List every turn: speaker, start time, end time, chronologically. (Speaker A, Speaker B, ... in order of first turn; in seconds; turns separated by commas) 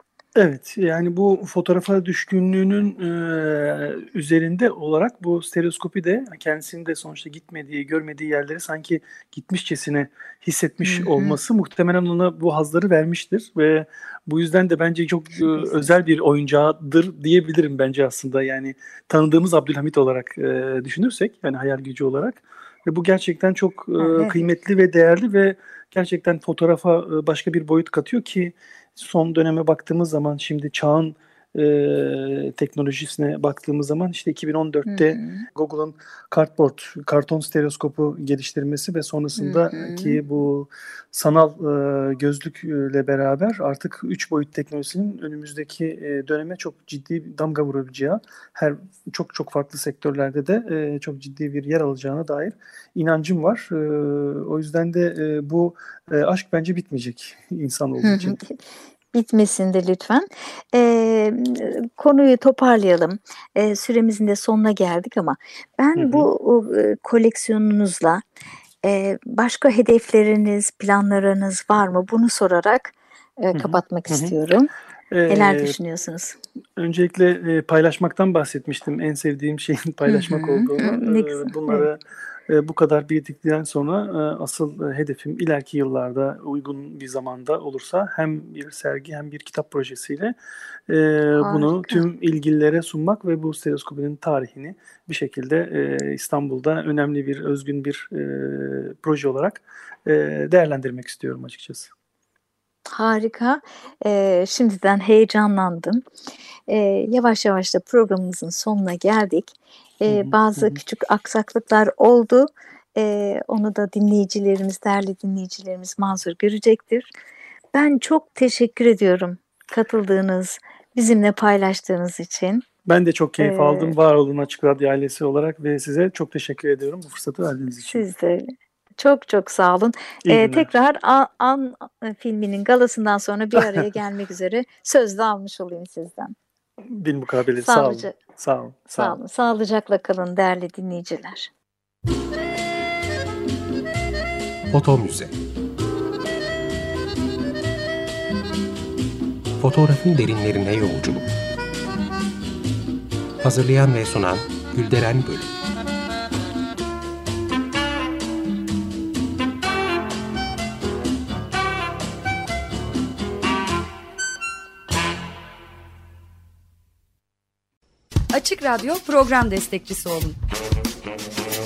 Speaker A: 0.4-58.4, Speaker B: 10.8-11.4, Speaker B: 24.0-24.4, Speaker B: 34.9-35.5, Speaker B: 39.4-40.2, Speaker B: 58.0-58.6, Speaker B: 59.1-68.2, Speaker A: 66.0-66.3, Speaker B: 68.8-74.7, Speaker A: 73.5-74.3, Speaker A: 75.1-75.8, Speaker B: 75.3-76.4, Speaker A: 76.8-90.3, Speaker B: 80.1-81.9, Speaker A: 90.9-101.9, Speaker B: 91.4-92.0, Speaker B: 102.9-106.0, Speaker B: 106.7-117.1, Speaker A: 110.1-110.8, Speaker B: 117.7-122.7, Speaker A: 122.8-128.1, Speaker B: 123.4-124.0, Speaker B: 127.9-136.3, Speaker A: 130.2-130.7, Speaker A: 133.6-133.8, Speaker A: 136.9-139.2, Speaker B: 137.6-138.2, Speaker B: 138.9-141.5, Speaker C: 144.7-145.3, Speaker C: 149.6-151.3, Speaker C: 153.4-155.6, Speaker D: 168.3-170.4